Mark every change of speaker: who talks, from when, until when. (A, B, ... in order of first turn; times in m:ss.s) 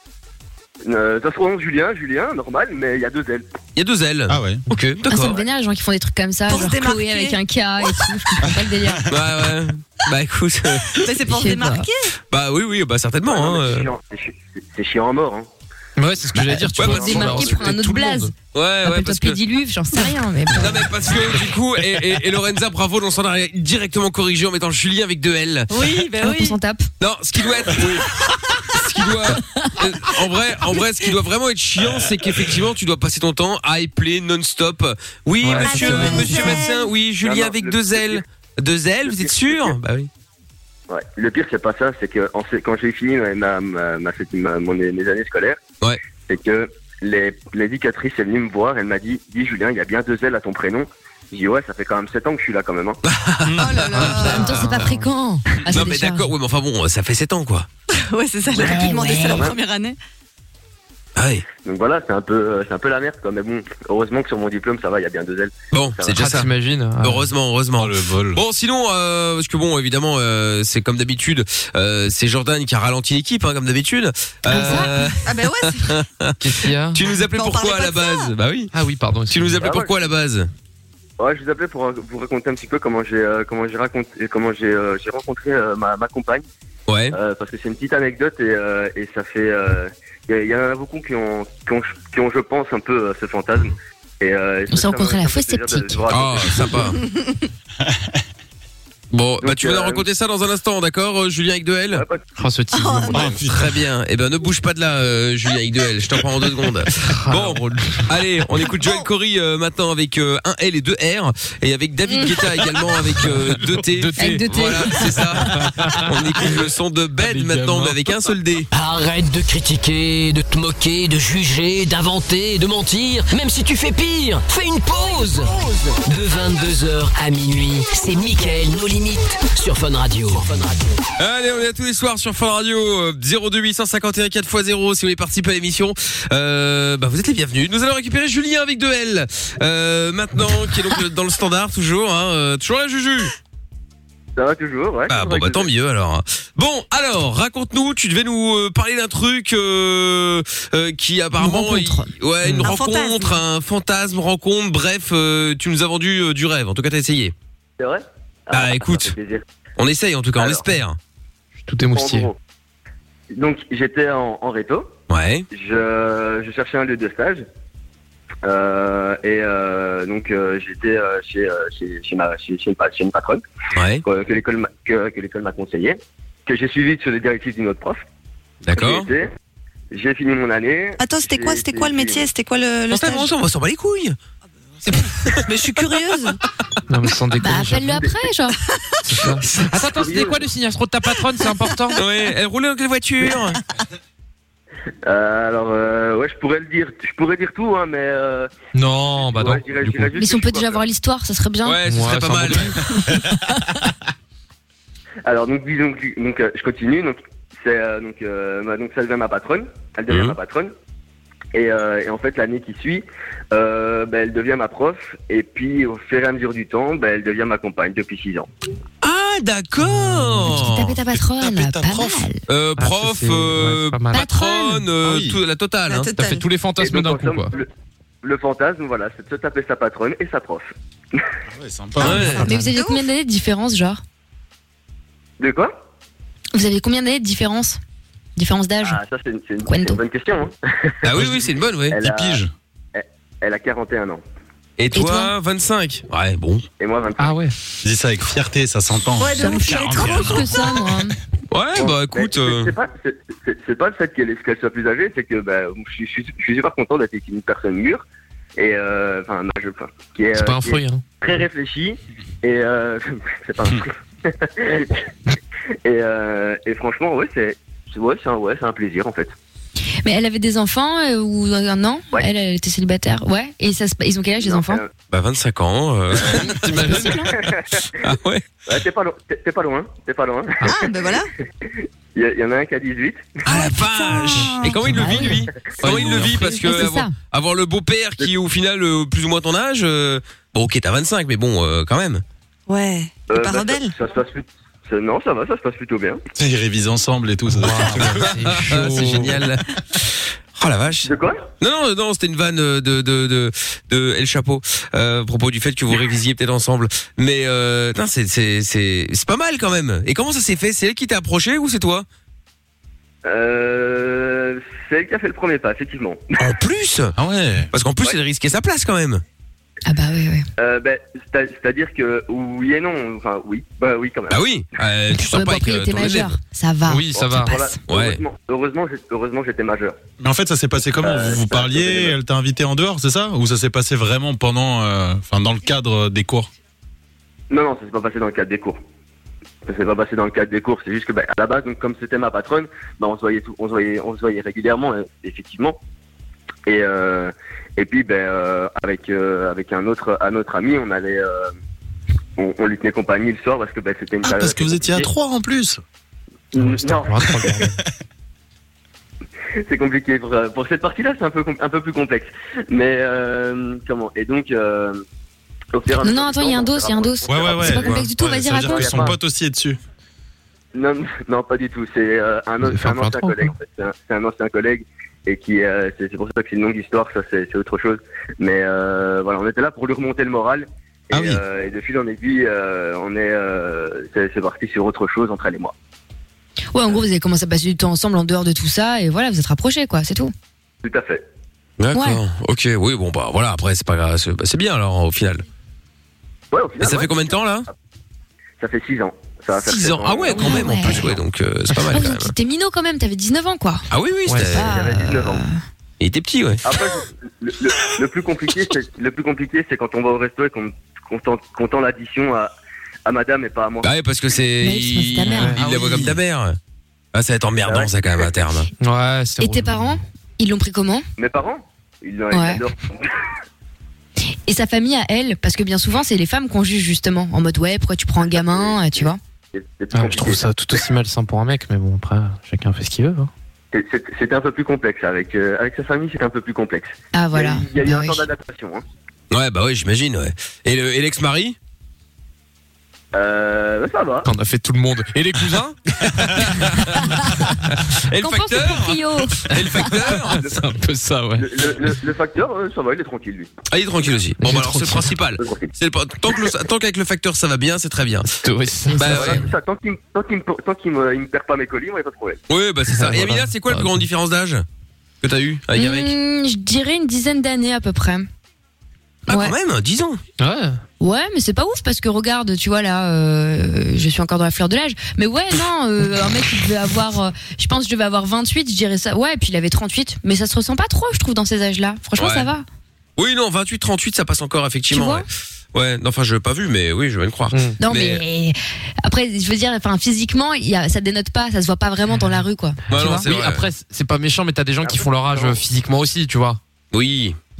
0:00.8-0:03.4 A
0:03.8-0:05.4 B
0:04.3-0:04.6 C
0:05.1-0:09.1 D
0:06.5-0:07.4 E
0:09.1-0:11.0 B
0:11.0-0:12.1 E
0:11.2-0:11.9 D
0:12.3-0:13.9 B
0:13.3-0:15.5 A
0:16.0-0:18.3 F
0:16.7-0:17.4 B
0:16.8-0:18.3 D
0:17.2-0:17.6 A
0:18.5-0:19.4 B
0:18.8-0:20.9 D
0:20.6-0:25.7 B
0:25.7-0:26.6 E
0:25.8-0:26.9 D
0:27.0-0:28.1 B
0:28.7-0:40.1 B
0:35.4-0:36.4 F
0:35.6-0:36.9 E
0:35.8-0:36.2 D
0:37.2-0:38.2 A
0:39.1-0:39.8 A
0:40.9-0:45.6 A
0:46.3-0:53.0 A
0:53.0-0:54.6 B
0:53.6-0:54.6 E
0:53.9-0:55.0 F
0:54.0-0:56.3 D
0:55.7-0:57.7 B
0:57.9-1:00.0 E
0:58.5-0:59.4 D
1:01.2-1:01.4 B
1:01.6-1:06.4 A
1:05.7-1:18.7 B
1:06.1-1:07.3 F
1:07.8-1:08.4 C
1:14.5-1:15.1 D
1:14.5-1:14.9 F
1:15.2-1:16.0 E
1:16.4-1:17.0 F
1:17.1-1:18.3 E
1:18.7-1:19.6 F
1:19.3-1:20.5 B
1:19.6-1:19.9 A
1:21.2-1:26.4 A
1:26.9-1:27.2 B
1:27.1-1:36.7 A
1:34.7-1:36.0 D
1:36.1-1:37.0 B
1:37.0-1:37.3 E
1:39.1-1:42.0 B
1:39.4-1:40.0 A
1:41.9-1:42.2 A
1:42.4-1:43.3 F
1:42.7-1:43.4 E
1:43.1-1:43.7 C
1:43.3-1:58.7 B
1:47.1-1:48.1 F
1:52.0-1:52.3 D
1:53.2-1:56.6 F
1:54.2-1:55.0 D
1:57.2-1:58.0 F
1:58.7-2:11.0 G
2:11.2-2:23.3 B
2:24.4-2:25.7 A
2:25.1-2:37.3 B
2:31.4-2:32.1 D
2:32.4-2:32.7 F
2:32.6-2:33.4 E
2:37.8-2:39.4 A
2:38.5-2:39.1 B
2:39.8-2:41.0 B
2:40.4-2:40.6 A
2:41.6-2:42.3 F
2:41.9-2:42.4 A
2:43.3-2:44.9 A
2:45.1-2:45.4 B
2:45.5-2:47.4 A
2:48.4-2:53.4 A
2:53.7-2:54.0 B
2:54.0-2:58.0 A
2:58.6-2:59.1 B
2:58.8-2:59.3 A
2:59.9-3:02.2 A
3:01.0-3:03.3 E
3:02.9-3:04.2 B
3:04.8-3:05.4 B
3:05.4-3:06.4 E
3:06.9-3:08.1 F
3:07.4-3:08.6 D
3:09.0-3:12.0 F
3:09.4-3:09.8 B
3:10.0-3:10.4 A
3:11.9-3:13.6 B
3:15.0-3:18.5 A
3:18.7-3:20.1 F
3:19.3-3:20.8 A
3:20.2-3:21.8 D
3:21.6-3:22.7 B
3:21.8-3:22.8 F
3:25.2-3:30.7 A
3:30.1-3:30.4 B
3:31.5-3:38.5 A
3:39.0-3:40.9 B
3:40.4-3:42.4 D
3:41.1-3:42.3 C
3:42.5-3:46.1 B
3:42.8-3:44.2 F
3:44.1-3:44.8 D
3:45.0-3:45.4 C
3:45.9-3:46.4 E
3:46.2-3:47.5 F
3:46.8-3:47.7 A
3:48.2-3:51.2 A
3:51.5-3:52.3 C
3:52.0-3:53.0 E
3:52.0-3:52.5 B
3:52.0-3:54.0 D
3:55.4-3:55.7 A
3:56.5-3:57.8 D
3:58.4-3:59.0 D
3:58.8-4:01.0 A
3:59.7-4:00.0 D
4:01.0-4:02.4 B
4:01.9-4:04.2 A
4:04.8-4:06.6 B
4:04.9-4:05.3 D
4:06.8-4:07.4 A
4:07.2-4:07.5 F
4:07.8-4:10.8 C
4:09.2-4:10.5 E
4:09.3-4:11.1 D
4:11.5-4:12.7 B
4:11.8-4:18.0 A
4:18.6-4:25.1 A
4:20.3-4:21.0 F
4:25.8-4:29.3 A
4:30.0-4:34.8 D
4:34.4-4:34.9 A
4:35.1-4:37.5 B
4:36.5-4:37.3 D
4:37.4-4:38.0 A
4:38.0-4:38.4 B
4:38.7-4:40.7 A
4:40.6-4:41.3 E
4:42.1-4:43.4 A
4:43.4-4:52.2 B
4:43.5-4:45.0 E
4:44.8-4:47.1 D
4:45.8-4:46.3 F
4:52.7-4:53.9 E
4:53.3-4:56.2 A
4:56.4-4:59.4 C
4:57.6-4:59.3 F
4:58.2-4:59.6 B
5:00.6-5:12.0 B
5:01.0-5:01.4 A
5:13.2-5:16.4 A
5:16.4-5:17.1 B
5:17.2-5:17.7 C
5:17.7-5:19.2 B
5:19.8-5:20.4 D
5:20.6-5:24.4 A
5:24.3-5:26.4 B
5:25.1-5:27.6 D
5:26.9-5:27.5 F
5:27.1-5:30.0 A
5:27.9-5:28.2 B
5:30.2-5:36.5 C
5:31.0-5:32.1 A
5:37.5-5:38.8 A
5:39.6-5:45.8 A
5:46.6-5:51.5 A
5:52.4-5:55.1 A
5:54.2-5:55.8 C
5:56.5-5:57.5 A
5:56.6-5:57.8 F
5:59.6-6:05.0 A
6:05.7-6:08.0 A
6:06.0-6:09.1 D
6:07.2-6:09.8 C
6:08.6-6:09.2 A
6:10.7-6:25.7 A
6:12.6-6:13.5 F
6:21.1-6:21.4 C
6:26.7-6:30.3 D
6:30.8-6:31.2 A
6:31.8-6:35.4 B
6:31.9-6:32.2 D
6:36.5-6:37.3 A
6:36.8-6:37.7 B
6:38.6-6:40.7 A
6:39.6-6:42.3 B
6:40.3-6:41.1 D
6:41.7-6:43.8 D
6:43.9-6:44.8 B
6:44.3-6:44.5 F
6:44.5-6:45.6 D
6:44.5-6:45.4 A
6:46.0-6:46.6 B
6:46.6-6:52.5 A
6:53.0-6:53.9 A
6:53.8-6:56.6 B
6:54.6-6:55.6 D
6:55.3-6:56.2 F
6:57.1-6:58.7 B
6:57.6-6:58.4 A
6:58.8-7:00.0 F
6:59.4-7:01.0 D
7:01.2-7:03.1 A
7:02.3-7:02.6 D
7:04.5-7:09.2 D
7:08.2-7:10.8 A
7:09.9-7:13.3 F
7:13.7-7:18.8 A
7:17.1-7:18.2 D
7:19.3-7:21.6 B
7:23.1-7:24.3 A
7:24.2-7:25.8 F
7:26.0-7:27.0 B
7:27.2-7:27.6 F
7:27.9-7:30.4 B
7:28.2-7:29.4 D
7:29.6-7:31.5 F
7:31.4-7:33.5 A
7:33.7-7:38.3 B
7:34.4-7:35.1 F
7:35.4-7:35.7 A
7:38.3-7:39.5 F
7:39.0-7:39.4 B
7:39.0-7:42.4 A
7:42.5-7:44.6 B
7:42.9-7:44.0 F
7:45.2-7:46.1 B
7:45.7-7:48.3 D
7:49.3-7:50.2 B
7:49.3-7:49.5 D
7:50.4-7:50.8 F
7:51.0-8:02.6 D
8:02.2-8:02.5 B
8:03.2-8:08.2 B
8:04.9-8:05.2 D
8:07.5-8:07.8 F
8:07.8-8:13.2 D
8:12.9-8:13.6 B
8:12.9-8:16.6 F
8:14.8-8:15.6 A
8:16.9-8:17.4 B